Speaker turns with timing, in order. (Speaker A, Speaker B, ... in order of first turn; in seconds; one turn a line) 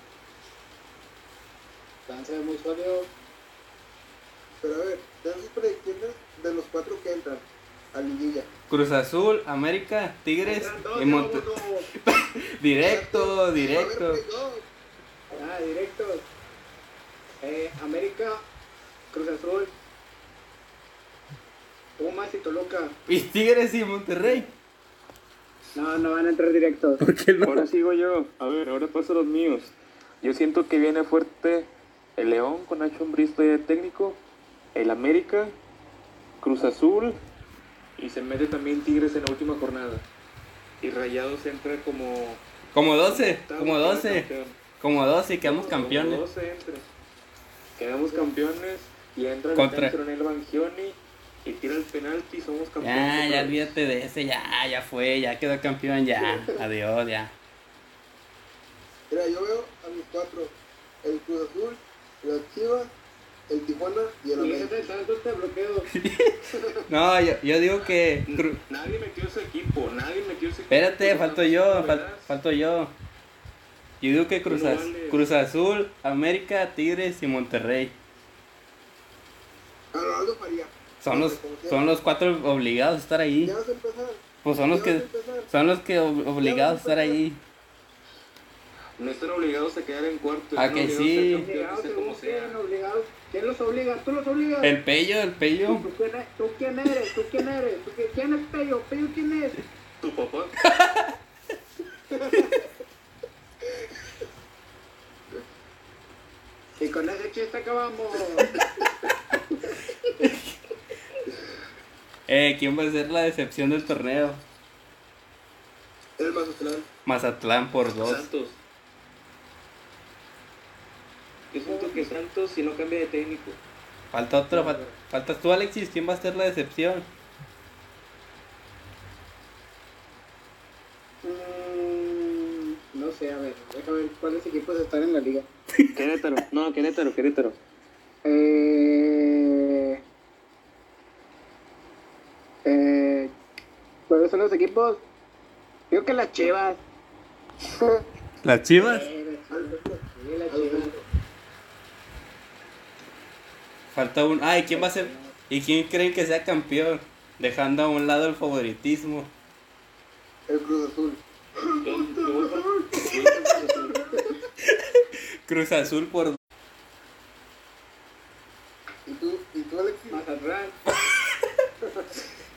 Speaker A: 2.1-3.1
Speaker B: 4.6-8.5
Speaker C: 8.7-14.2
Speaker A: 10.4-11.9
Speaker B: 12.8-14.7
Speaker A: 15.3-16.3
Speaker A: 17.4-18.4
Speaker A: 19.1-19.7
Speaker A: 22.0-23.0
Speaker C: 23.1-24.5
Speaker A: 24.2-24.5
Speaker A: 25.7-27.0
Speaker C: 27.0-27.7
Speaker D: 27.4-34.2
Speaker D: 34.7-35.5
Speaker D: 36.4-37.2
Speaker D: 38.0-40.0
Speaker D: 40.8-42.4
Speaker C: 42.7-44.3
Speaker D: 43.1-44.6
Speaker C: 44.8-46.2
Speaker D: 45.4-46.9
Speaker D: 47.8-53.6
Speaker C: 49.5-50.0
Speaker C: 52.8-57.3
Speaker B: 59.1-62.9
Speaker B: 63.5-64.7
Speaker A: 64.4-65.9
Speaker C: 65.9-68.6
Speaker D: 68.3-72.3
Speaker C: 70.7-72.9
Speaker C: 74.0-77.9
Speaker D: 74.5-75.3
Speaker B: 79.9-81.8
Speaker C: 81.0-83.5
Speaker B: 83.4-85.5
Speaker C: 84.4-87.4
Speaker B: 86.4-87.2
Speaker D: 89.0-92.6
Speaker C: 90.5-91.5
Speaker A: 91.3-94.7
Speaker C: 94.6-95.9
Speaker A: 95.7-99.6
Speaker D: 100.0-100.6
Speaker C: 100.6-101.1
Speaker A: 106.8-108.6
Speaker C: 110.2-110.5
Speaker C: 112.3-114.4
Speaker B: 116.2-116.9
Speaker C: 117.0-118.3
Speaker D: 118.0-118.6
Speaker D: 121.5-123.6
Speaker A: 121.7-122.1
Speaker C: 124.1-127.1
Speaker A: 131.2-135.5
Speaker D: 135.9-137.6
Speaker A: 138.2-140.0
Speaker A: 142.6-143.3
Speaker A: 144.1-145.0
Speaker A: 145.9-146.8
Speaker C: 148.4-149.1
Speaker A: 148.7-150.9
Speaker B: 149.5-151.1
Speaker C: 153.9-159.3
Speaker A: 154.7-155.3
Speaker B: 160.5-161.2
Speaker D: 161.8-164.1
Speaker A: 162.0-164.2
Speaker C: 164.6-166.4
Speaker B: 169.1-170.2
Speaker A: 170.1-170.9